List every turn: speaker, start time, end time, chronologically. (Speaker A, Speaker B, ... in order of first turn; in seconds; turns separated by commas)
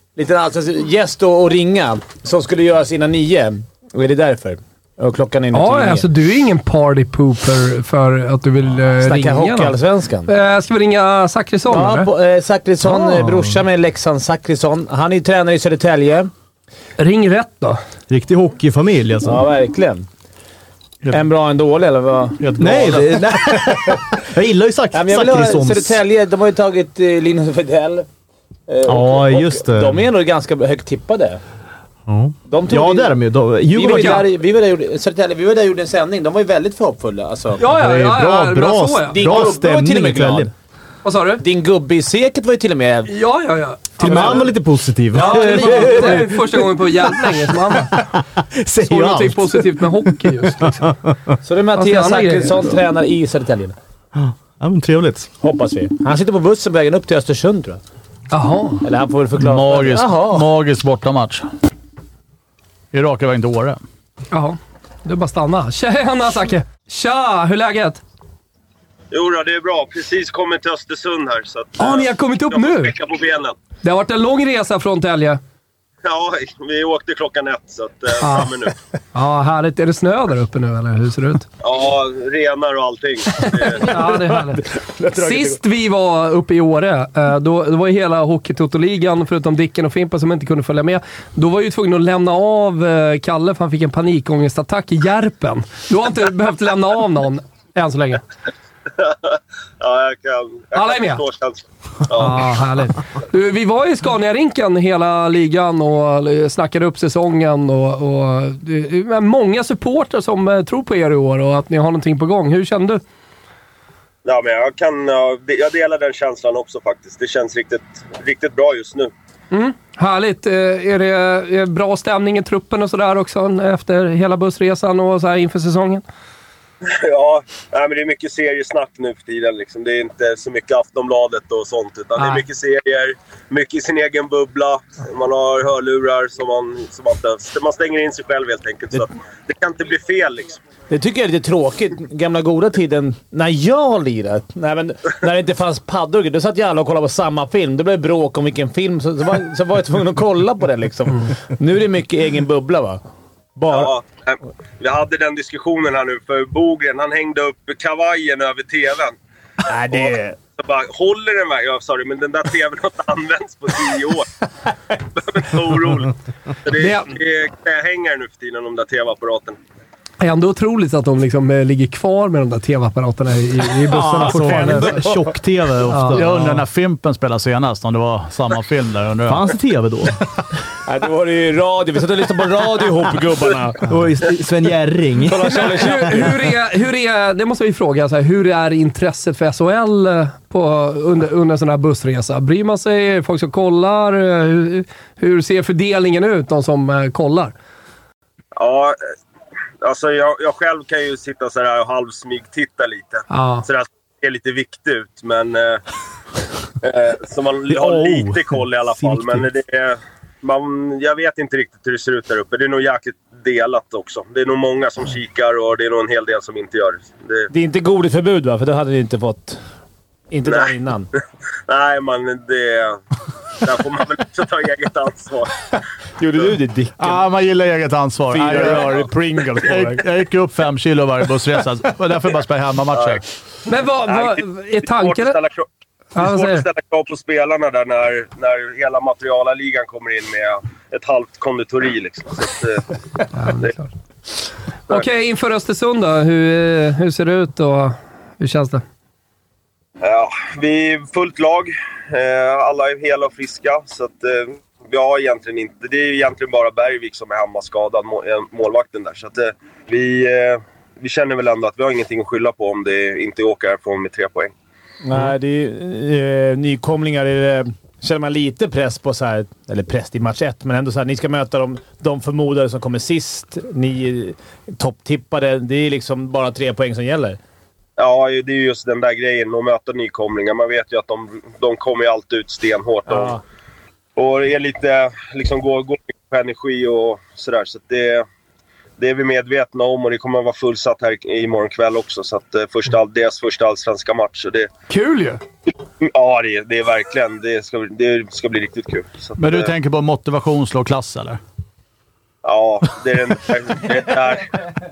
Speaker A: 0.1-6.1, Speaker B: 5.5-9.8, Speaker A: 9.0-10.3, Speaker B: 10.3-12.1, Speaker A: 11.7-16.3, Speaker C: 12.8-13.5, Speaker B: 17.0-17.8, Speaker C: 18.1-19.4, Speaker A: 19.2-20.1, Speaker A: 21.1-24.1, Speaker D: 22.4-23.2, Speaker C: 22.6-26.0, Speaker A: 24.9-28.1, Speaker A: 28.7-31.4, Speaker C: 28.8-30.0, Speaker C: 32.1-34.2, Speaker A: 32.5-37.6, Speaker B: 33.8-34.2, Speaker B: 37.6-39.2, Speaker C: 37.7-40.5, Speaker A: 39.1-40.5, Speaker B: 41.0-41.4, Speaker A: 41.4-43.1, Speaker B: 43.1-44.5, Speaker C: 44.0-50.1, Speaker A: 44.0-44.5, Speaker B: 45.1-48.0, Speaker A: 45.1-46.2, Speaker B: 48.8-51.0, Speaker C: 50.6-51.4, Speaker A: 51.4-53.7, Speaker B: 51.7-52.6, Speaker C: 54.1-55.3, Speaker A: 55.4-57.8, Speaker B: 58.3-58.8, Speaker A: 58.8-60.5, Speaker D: 59.4-61.4, Speaker D: 62.9-63.8, Speaker B: 64.3-68.0, Speaker E: 69.1-73.5, Speaker B: 71.8-72.9, Speaker B: 73.8-75.4, Speaker E: 76.0-78.8, Speaker B: 78.2-78.5, Speaker B: 79.1-81.5, Speaker E: 81.6-83.9, Speaker A: 83.7-85.6, Speaker B: 83.7-98.2, Speaker E: 99.0-102.5, Speaker B: 100.7-101.2, Speaker B: 102.1-113.0, Speaker E: 114.2-119.1, Speaker B: 119.5-126.0, Speaker E: 126.8-140.6, Speaker B: 132.2-132.4, Speaker A: 140.9-153.0, Speaker A: 153.6-153.9, Speaker E: 153.7-159.2, Speaker A: 159.7-160.4, Speaker E: 159.9-164.3, Speaker E: 165.1-169.6, Speaker B: 166.7-167.1, Speaker B: 170.2-175.1, Speaker C: 173.9-176.6, Speaker A: 174.2-175.3, Speaker B: 175.9-176.2, Speaker D: 176.1-179.5, Speaker C: 179.2-180.2, Speaker A: 180.8-183.9, Speaker C: 183.8-185.9, Speaker A: 185.2-186.3, Speaker B: 185.4-197.5, Speaker E: 198.6-199.0, Speaker E: 199.8-205.8, Speaker B: 203.3-203.6, Speaker E: 206.8-217.5, Speaker C: 207.7-209.4, Speaker A: 217.5-219.6, Speaker A: 220.3-221.1, Speaker E: 220.4-220.7, Speaker E: 221.7-223.0, Speaker E: 223.6-225.8, Speaker A: 226.2-227.2, Speaker D: 227.0-229.1, Speaker A: 228.3-230.0, Speaker D: 229.6-233.2, Speaker B: 233.7-235.4, Speaker E: 234.1-242.9, Speaker B: 236.1-236.7, Speaker B: 243.3-243.9, Speaker B: 244.9-248.8, Speaker E: 250.0-264.5, Speaker A: 265.0-277.4, Speaker E: 278.0-283.4, Speaker A: 283.1-283.4, Speaker E: 284.1-288.2, Speaker E: 289.0-294.7, Speaker B: 294.9-295.4, Speaker E: 296.0-299.7, Speaker D: 299.4-301.4, Speaker E: 302.4-304.6